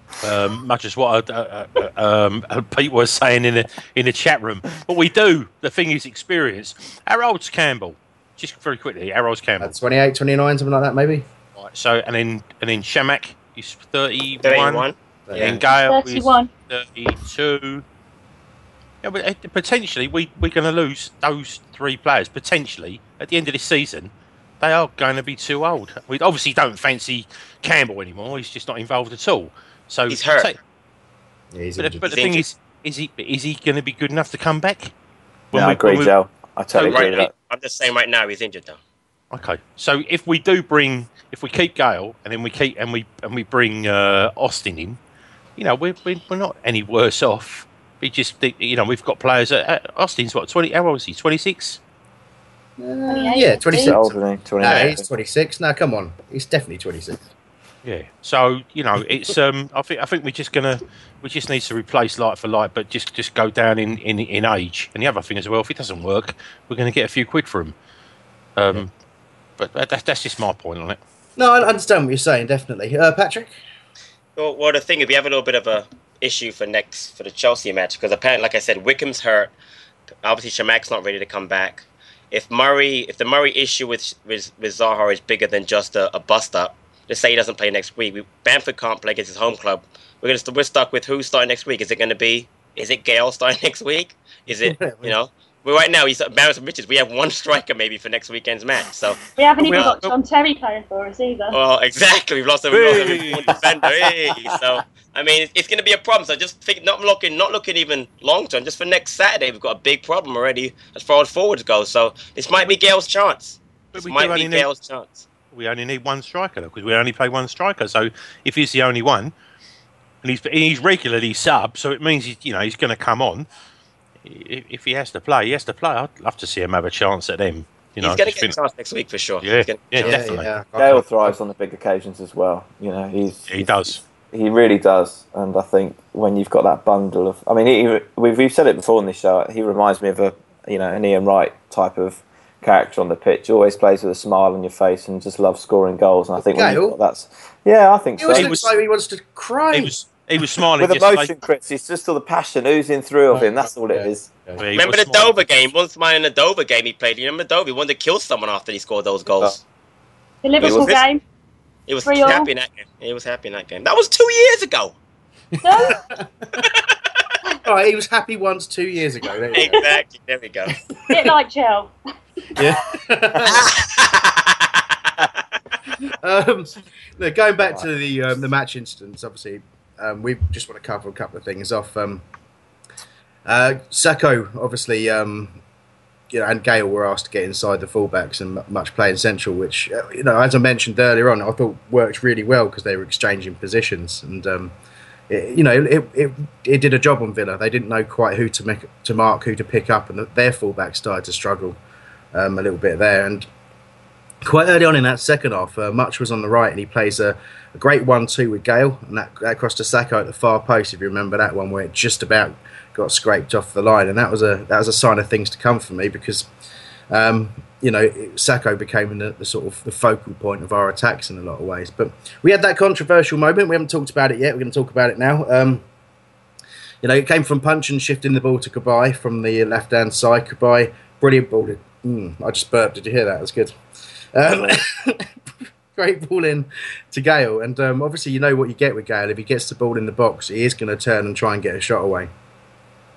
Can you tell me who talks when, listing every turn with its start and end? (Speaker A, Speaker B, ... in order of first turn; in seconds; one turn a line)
Speaker A: 0.2-9.7
Speaker B: 9.6-11.2
Speaker A: 11.6-17.8
Speaker C: 14.4-15.6
Speaker B: 15.3-15.6
Speaker D: 15.7-16.5
Speaker A: 19.0-30.6
Speaker C: 30.1-30.5
Speaker B: 31.5-32.4
Speaker A: 31.8-34.9
Speaker A: 35.5-36.1
Speaker E: 35.5-37.3
Speaker A: 36.7-37.2
Speaker C: 36.9-38.8
Speaker A: 39.3-45.0
Speaker A: 45.6-51.8
Speaker B: 52.8-57.3
Speaker D: 53.1-54.0
Speaker E: 53.7-55.0
Speaker A: 57.8-67.7
Speaker A: 68.5-68.9
Speaker A: 69.6-71.0
Speaker B: 71.4-73.5
Speaker C: 74.3-79.5
Speaker C: 80.2-99.2
Speaker B: 94.6-95.1
Speaker D: 99.4-101.6
Speaker A: 99.6-100.1
Speaker C: 101.5-115.2
Speaker A: 102.7-103.6
Speaker A: 113.9-114.7
Speaker A: 115.5-119.3
Speaker A: 120.2-123.5
Speaker A: 124.2-128.6
Speaker C: 128.0-130.2
Speaker A: 129.4-130.5
Speaker B: 130.0-131.4
Speaker E: 130.8-148.7
Speaker A: 133.5-134.0
Speaker B: 146.5-147.0
Speaker B: 148.2-149.9
Speaker A: 148.3-148.7
Speaker A: 149.7-151.3
Speaker E: 150.8-154.3
Speaker B: 153.3-154.6
Speaker A: 154.6-155.4
Speaker C: 154.7-159.6
Speaker D: 160.4-161.2
Speaker C: 160.6-161.0
Speaker E: 160.6-160.9
Speaker C: 161.9-164.9
Speaker D: 162.0-162.5
Speaker D: 165.6-166.0
Speaker B: 165.8-166.5
Speaker C: 166.6-166.9
Speaker B: 167.6-169.9
Speaker C: 169.5-170.7
Speaker D: 171.1-171.9
Speaker B: 172.6-173.7
Speaker C: 173.6-175.4
Speaker B: 176.2-182.2
Speaker B: 183.4-185.6
Speaker B: 186.3-194.7
Speaker B: 195.3-201.8
Speaker B: 202.3-203.5
Speaker B: 204.4-216.5
Speaker B: 217.1-225.8
Speaker B: 227.0-233.8
Speaker B: 234.3-235.3
Speaker B: 235.9-242.3